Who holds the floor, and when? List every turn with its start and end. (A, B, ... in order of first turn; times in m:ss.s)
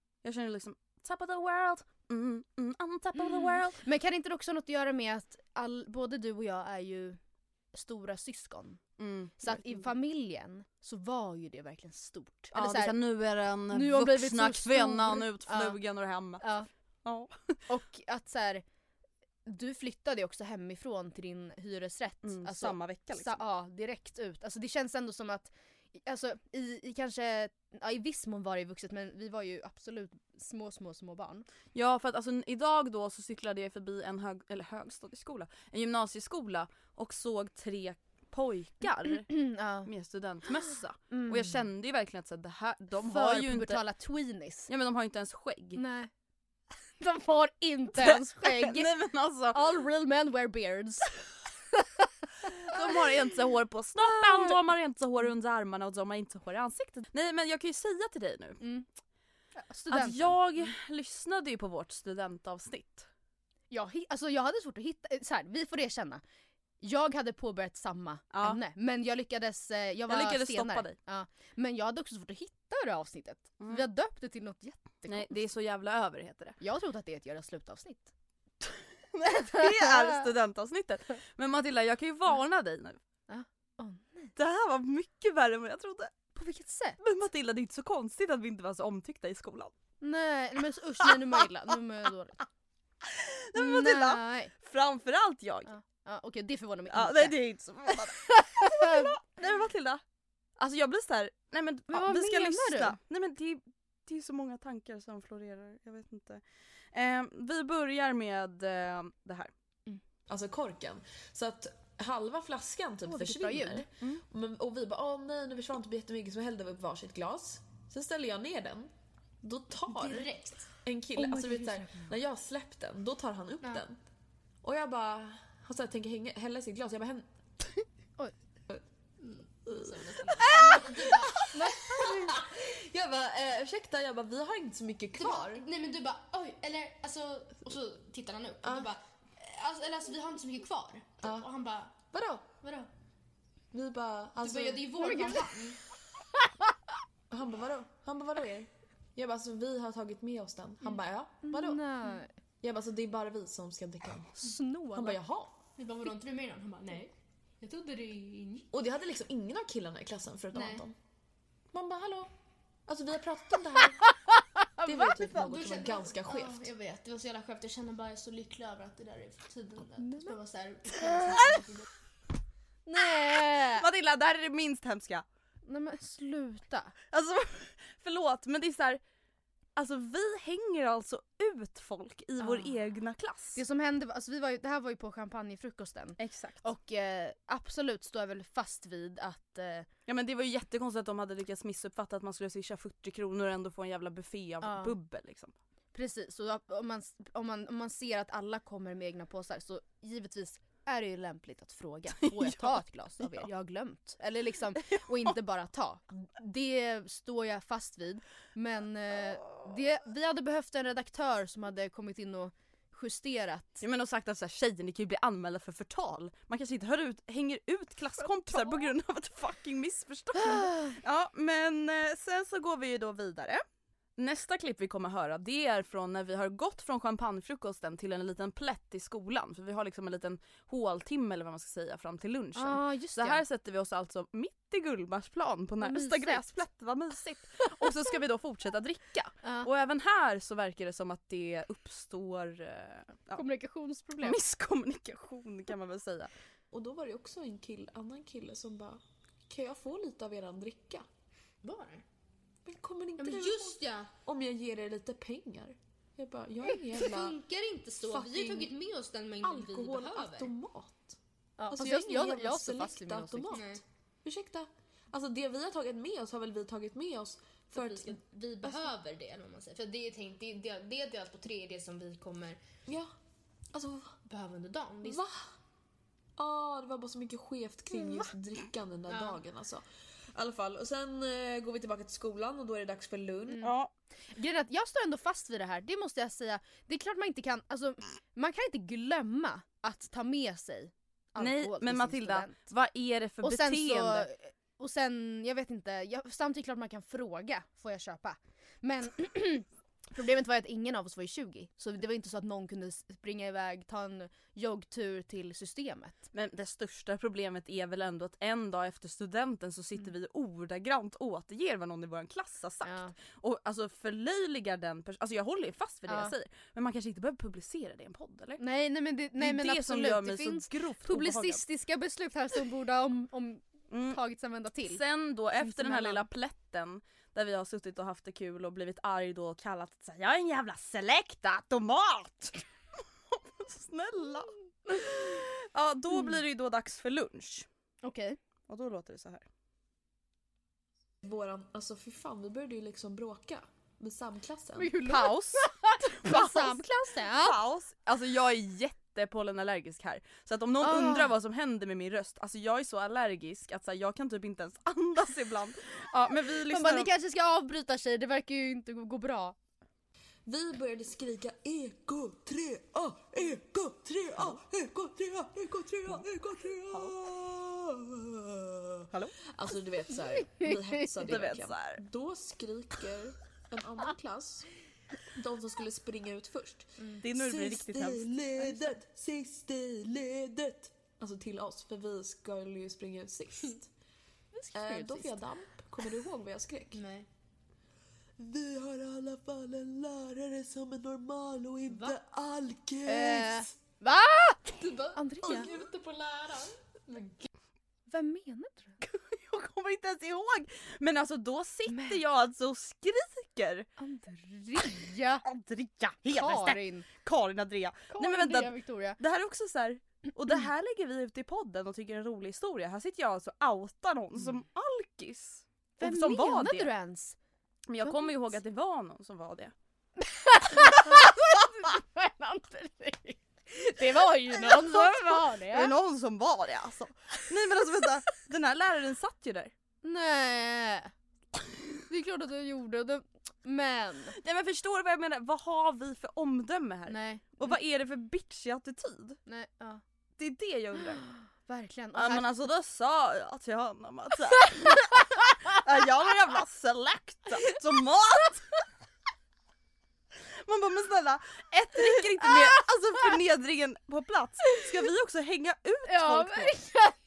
0:00.2-0:03.8 A
0:03.2-0:07.2 B
0:07.7-0:08.8 B
0:09.0-0:09.9 A
0:09.4-0:12.9 B
0:12.5-0:16.4 A
0:13.7-0:15.8 B
0:16.4-0:16.7 B
0:17.0-0:17.6 A
0:17.7-0:18.6 B
0:19.4-0:31.5 B
0:22.2-0:23.4 A
0:31.7-0:39.3 A
0:39.2-0:39.9 B
0:39.8-0:43.8 A
0:41.1-0:41.6 B
0:43.0-0:44.7 B
0:44.7-0:45.8 A
0:45.8-0:46.1 B
0:47.0-0:49.0 B
0:48.0-0:49.6 A
0:49.5-0:51.1 B
0:52.6-0:58.6 A
0:54.0-0:54.5 B
0:58.6-0:58.8 B
0:59.6-1:00.7 B
0:59.9-1:03.1 A
1:03.7-1:06.2 B
1:06.8-1:15.4 B
1:08.3-1:08.6 A
1:10.1-1:11.0 A
1:13.6-1:13.8 A
1:15.1-1:16.6 A
1:16.6-1:18.1 B
1:19.1-1:23.0 A
1:19.5-1:20.2 B
1:23.3-1:24.3 B
1:24.4-1:26.1 A
1:26.3-1:27.0 B
1:27.0-1:29.7 A
1:30.0-1:32.4 B
1:33.0-1:35.7 A
1:33.5-1:34.5 B
1:35.7-1:37.4 B
1:36.9-1:40.0 A
1:37.9-1:39.1 B
1:40.6-1:46.4 A
1:41.9-1:43.0 B
1:46.9-1:49.5 A
1:50.3-1:58.9 C
1:53.1-1:53.8 B
1:59.4-2:04.0 C
1:59.9-2:01.9 D
2:04.6-2:07.3 C
2:09.2-2:12.4 D
2:09.7-2:15.6 C
2:15.1-2:22.0 D
2:18.6-2:18.9 C
2:21.2-2:21.5 C
2:22.1-2:22.5 C
2:22.6-2:22.9 D
2:23.7-2:25.4 C
2:24.4-2:25.8 D
2:27.3-2:31.8 C
2:31.4-2:32.3 B
2:32.6-2:35.6 C
2:34.4-2:35.2 B
2:35.8-2:38.7 D
2:38.7-2:40.9 C
2:40.5-2:40.8 D
2:41.7-2:42.3 C
2:42.9-2:44.0 C
2:44.8-2:46.7 C
2:45.0-2:51.8 D
2:50.0-2:50.3 B
2:52.9-2:53.8 B
2:53.5-2:55.2 A
2:55.6-2:56.9 B
2:57.1-2:59.0 A
2:59.8-3:03.6 A
3:02.4-3:02.7 B
3:03.6-3:09.9 B
3:06.2-3:06.6 A
3:10.1-3:15.5 A
3:14.6-3:14.9 B
3:15.9-3:33.8 B
3:22.2-3:23.5 A
3:24.9-3:25.3 A
3:33.8-3:43.6 A
3:38.5-3:38.9 B
3:40.4-3:40.9 B
3:44.2-4:03.4 A
3:52.5-3:53.4 B
3:55.8-3:56.4 B
3:59.4-3:59.7 B
4:03.4-4:04.4 B
4:04.2-4:06.3 A
4:06.7-4:11.0 C
4:11.6-4:12.0 D
4:12.6-4:17.4 C
4:13.2-4:14.1 D
4:16.7-4:20.5 D
4:18.0-4:18.8 C
4:19.4-4:21.2 C
4:21.6-4:23.6 B
4:21.7-4:28.9 C
4:23.5-4:23.8 D
4:27.7-4:32.6 D
4:32.8-4:33.1 C
4:33.7-4:34.1 C
4:34.2-4:35.2 D
4:35.0-4:35.4 C
4:36.4-4:39.8 C
4:37.9-4:38.2 B
4:39.1-4:39.4 D
4:40.3-4:43.6 C
4:43.6-4:43.9 A
4:44.3-4:52.6 B
4:51.4-4:54.3 A
4:53.4-5:06.2 B
5:06.3-5:18.6 A
5:12.8-5:13.1 B
5:16.1-5:16.3 B
5:18.6-5:25.0 B
5:19.4-5:21.6 A
5:23.9-5:24.2 A
5:24.8-5:32.6 A
5:25.6-5:26.2 B
5:33.3-5:37.7 A
5:34.9-5:35.2 B
5:38.0-5:38.4 B
5:38.7-5:39.4 A
5:41.2-5:45.0 C
5:44.8-5:47.6 B
5:45.0-5:57.1 A
5:50.8-5:51.3 B
5:56.7-5:59.5 B
6:00.4-6:14.7 C
6:11.2-6:12.0 A
6:15.4-6:23.9 C
6:17.2-6:18.7 A
6:24.5-6:25.4 B
6:24.7-6:27.0 C
6:26.9-6:27.3 D
6:28.4-6:33.7 C
6:31.9-6:32.2 D
6:33.0-6:35.8 B
6:34.8-6:36.8 C
6:38.1-6:39.0 B
6:39.0-6:43.8 A
6:41.9-6:42.2 B
6:44.0-6:45.4 B
6:45.4-6:56.9 A
6:46.2-6:47.1 B
6:48.1-6:49.2 B
6:56.0-6:57.4 B
6:57.9-6:59.7 A
6:58.0-6:58.3 B
7:00.2-7:05.9 B
7:00.8-7:01.2 A
7:04.4-7:09.7 A
7:10.0-7:11.1 B
7:12.1-7:14.4 B
7:14.4-7:19.4 A
7:17.1-7:17.8 B
7:19.5-7:20.0 B
7:20.4-7:21.2 A
7:21.1-7:22.5 B
7:22.1-7:28.6 A
7:30.6-7:36.7 A
7:32.0-7:32.6 B
7:36.1-7:37.2 B